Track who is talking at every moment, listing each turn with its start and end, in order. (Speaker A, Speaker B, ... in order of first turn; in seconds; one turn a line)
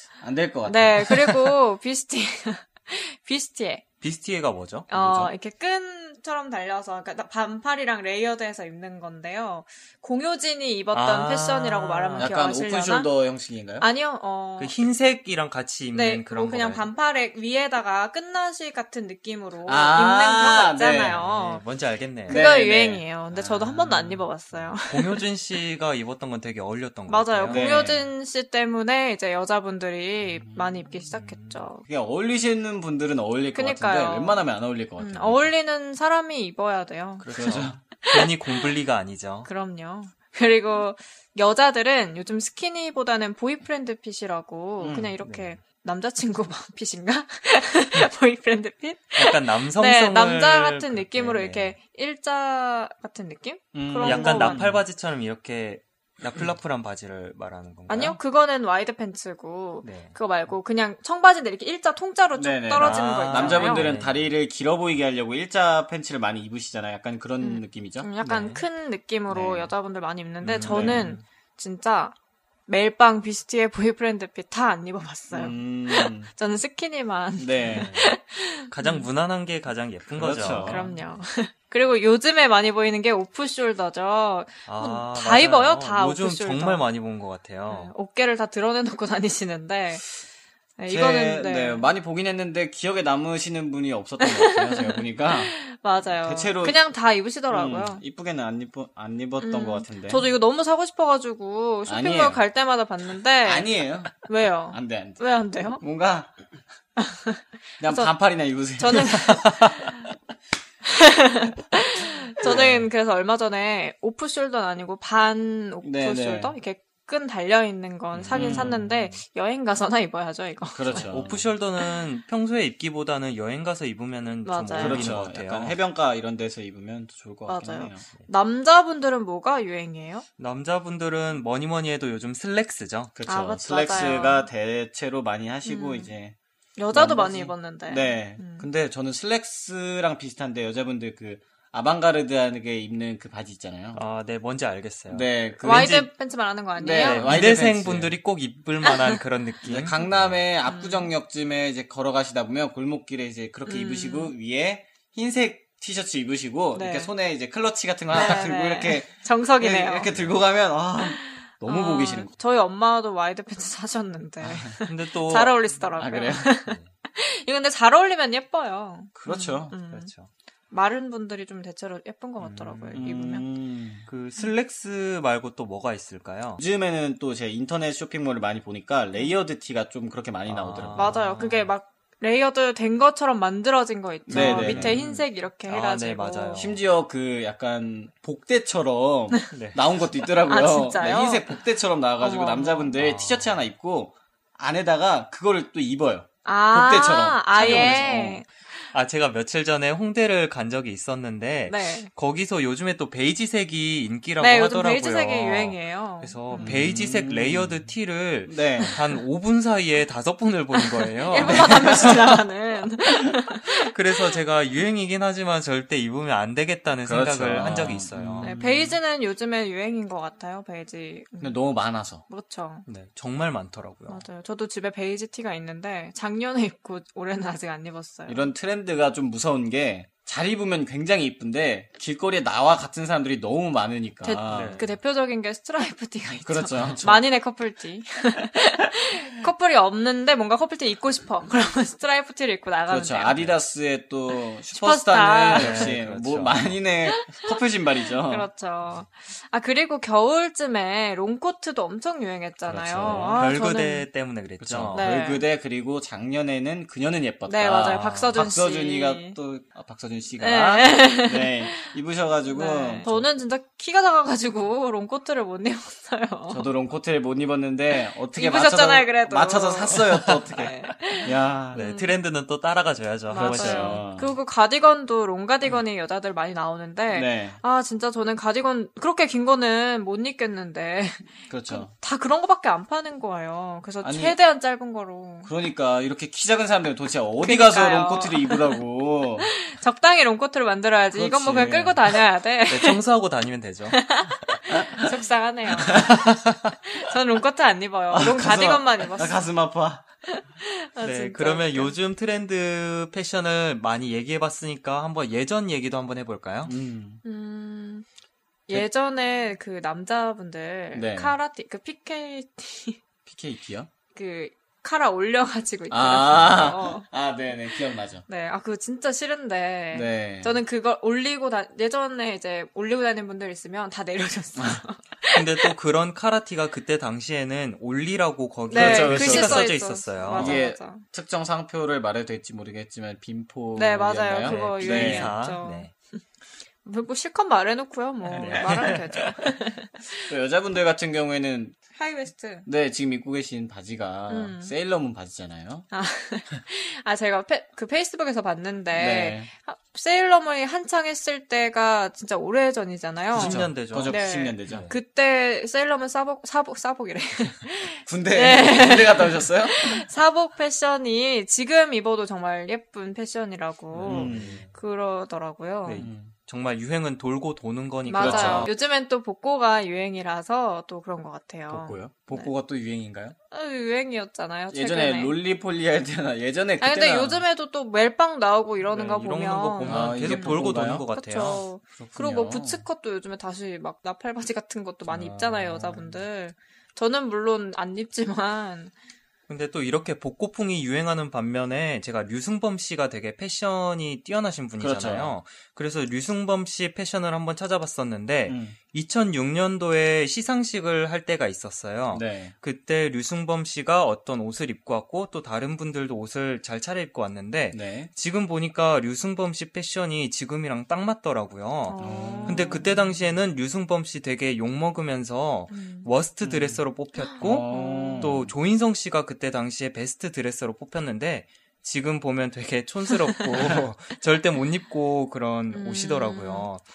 Speaker A: 0.2-1.5
Speaker B: 0.6-3.8
Speaker C: 4.0-4.9
Speaker B: 4.9-13.1
Speaker A: 4.9-5.3
Speaker C: 10.9-12.3
Speaker A: 12.2-13.9
Speaker B: 13.8-14.8
Speaker C: 14.6-16.9
Speaker B: 15.9-21.6
Speaker A: 19.6-21.2
Speaker C: 21.0-22.4
Speaker A: 22.3-24.2
Speaker B: 22.3-25.2
Speaker C: 24.9-27.9
Speaker B: 27.1-31.8
Speaker A: 27.5-28.1
Speaker A: 30.2-30.8
Speaker C: 31.1-31.6
Speaker A: 31.8-35.5
Speaker B: 33.5-34.4
Speaker B: 35.0-37.2
Speaker C: 37.2-39.5
Speaker A: 37.3-37.8
Speaker B: 38.0-38.6
Speaker B: 39.4-54.6
Speaker A: 44.8-45.1
Speaker C: 45.2-45.5
Speaker C: 49.2-51.7
Speaker A: 53.7-54.8
Speaker C: 54.0-58.2
Speaker B: 57.9-63.9
Speaker C: 59.8-60.1
Speaker A: 62.4-68.1
Speaker C: 62.8-64.3
Speaker B: 67.4-72.1
Speaker C: 68.2-68.6
Speaker A: 69.3-69.7
Speaker C: 70.4-71.2
Speaker A: 70.6-71.1
Speaker B: 72.7-79.0
Speaker A: 75.3-76.3
Speaker A: 77.4-77.9
Speaker C: 77.6-78.1
Speaker C: 78.7-81.0
Speaker A: 80.1-80.9
Speaker B: 80.5-86.8
Speaker C: 84.7-87.9
Speaker B: 87.7-90.1
Speaker B: 90.8-91.9
Speaker A: 90.9-95.5
Speaker B: 94.2-98.0
Speaker A: 96.2-96.8
Speaker A: 97.5-100.2
Speaker B: 99.4-105.8
Speaker A: 101.9-102.4
Speaker A: 103.4-105.2
Speaker A: 105.8-106.3
Speaker B: 107.0-108.1
Speaker A: 107.8-109.7
Speaker B: 108.8-110.0
Speaker B: 110.9-121.2
Speaker A: 112.4-112.8
Speaker A: 115.8-116.5
Speaker C: 118.2-119.2
Speaker A: 118.3-118.8
Speaker A: 120.7-121.4
Speaker C: 120.9-125.8
Speaker B: 124.4-125.1
Speaker A: 124.8-128.0
Speaker B: 127.5-130.2
Speaker C: 130.4-133.1
Speaker A: 133.2-136.3
Speaker B: 133.3-134.5
Speaker B: 135.7-136.1
Speaker B: 136.8-138.7
Speaker A: 136.9-144.0
Speaker C: 143.9-146.1
Speaker A: 145.1-146.0
Speaker B: 145.6-147.3
Speaker A: 146.8-148.1
Speaker C: 147.0-150.4
Speaker B: 148.8-149.2
Speaker A: 149.6-162.3
Speaker B: 150.6-151.1
Speaker B: 153.7-154.3
Speaker B: 156.7-157.1
Speaker B: 158.1-160.1
Speaker B: 161.0-170.1
Speaker A: 164.4-164.7
Speaker C: 164.8-165.6
Speaker A: 166.0-166.5
Speaker C: 166.4-166.9
Speaker A: 169.2-169.7
Speaker C: 169.9-170.3
Speaker B: 170.7-173.4
Speaker C: 172.4-173.1
Speaker A: 172.9-174.1
Speaker C: 174.1-176.6
Speaker A: 176.6-181.0
Speaker C: 180.4-181.7
Speaker B: 180.9-186.6
Speaker A: 184.3-185.0
Speaker C: 184.3-186.8
Speaker A: 186.6-198.4
Speaker C: 189.5-189.8
Speaker B: 190.4-191.6
Speaker B: 192.2-192.9
Speaker C: 193.0-193.5
Speaker B: 196.4-198.8
Speaker C: 197.6-198.1
Speaker C: 198.9-212.2
Speaker B: 201.7-202.1
Speaker B: 204.4-206.8
Speaker A: 206.6-207.8
Speaker A: 208.5-209.0
Speaker B: 208.8-209.1
Speaker B: 210.7-214.2
Speaker A: 211.4-212.2
Speaker C: 213.7-218.5
Speaker A: 217.0-218.9
Speaker B: 218.4-221.6
Speaker A: 221.4-222.2
Speaker B: 222.3-222.8
Speaker C: 222.9-224.2
Speaker B: 224.1-228.5
Speaker A: 228.3-234.8
Speaker B: 234.2-243.5
Speaker C: 234.5-234.9
Speaker A: 236.4-237.2
Speaker A: 242.9-248.5
Speaker B: 244.3-245.9
Speaker C: 245.5-246.7
Speaker B: 247.1-247.5
Speaker B: 248.2-254.1
Speaker A: 252.7-253.5
Speaker C: 253.0-255.1
Speaker A: 254.6-263.3
Speaker B: 254.9-255.4
Speaker B: 257.4-259.4
Speaker B: 260.4-261.9
Speaker B: 262.5-266.6
Speaker A: 266.5-271.8
Speaker B: 268.3-272.2
Speaker C: 271.7-274.0
Speaker B: 273.3-285.5
Speaker A: 273.3-274.4
Speaker A: 277.1-277.6
Speaker A: 281.5-281.9
Speaker A: 284.0-284.4
Speaker A: 285.4-289.5
Speaker B: 287.4-288.8
Speaker B: 289.5-293.0
Speaker A: 291.1-292.1
Speaker C: 292.7-294.0
Speaker B: 293.9-296.3
Speaker A: 295.9-296.3
Speaker B: 296.8-299.4
Speaker A: 298.1-300.0
Speaker B: 300.3-301.9
Speaker C: 301.0-306.7
Speaker A: 306.6-307.2
Speaker B: 307.2-308.1
Speaker B: 308.7-313.0
Speaker A: 310.9-311.4
Speaker A: 313.2-313.9
Speaker B: 314.1-317.1
Speaker A: 315.9-318.2
Speaker B: 318.3-325.7
Speaker A: 319.9-320.6
Speaker C: 325.3-330.6
Speaker B: 328.7-331.0
Speaker A: 328.7-329.7
Speaker A: 330.3-335.3
Speaker B: 333.7-335.9
Speaker C: 334.4-335.9
Speaker B: 336.8-340.3
Speaker C: 338.3-339.2
Speaker A: 340.3-341.8
Speaker B: 341.9-342.7
Speaker A: 342.6-345.9
Speaker B: 344.3-344.7
Speaker B: 345.9-366.1
Speaker A: 348.9-349.5
Speaker C: 353.3-354.9
Speaker A: 353.3-354.9
Speaker A: 358.1-360.1
Speaker C: 363.9-364.7
Speaker A: 364.0-364.6
Speaker C: 365.8-368.7
Speaker A: 366.0-366.3
Speaker B: 368.1-372.5
Speaker A: 368.1-368.7
Speaker A: 371.7-373.4
Speaker B: 373.5-375.4
Speaker A: 374.7-377.4
Speaker B: 376.8-388.9
Speaker C: 378.9-381.6
Speaker A: 379.8-381.0
Speaker A: 382.0-382.8
Speaker C: 385.1-386.1
Speaker C: 389.5-426.8
Speaker A: 394.8-395.3
Speaker A: 398.5-398.8
Speaker A: 402.1-402.5
Speaker A: 407.7-408.1
Speaker B: 411.9-413.1
Speaker A: 412.0-412.9
Speaker B: 415.7-416.1
Speaker A: 416.4-416.8
Speaker B: 417.2-418.3
Speaker A: 417.4-418.5
Speaker B: 425.7-426.7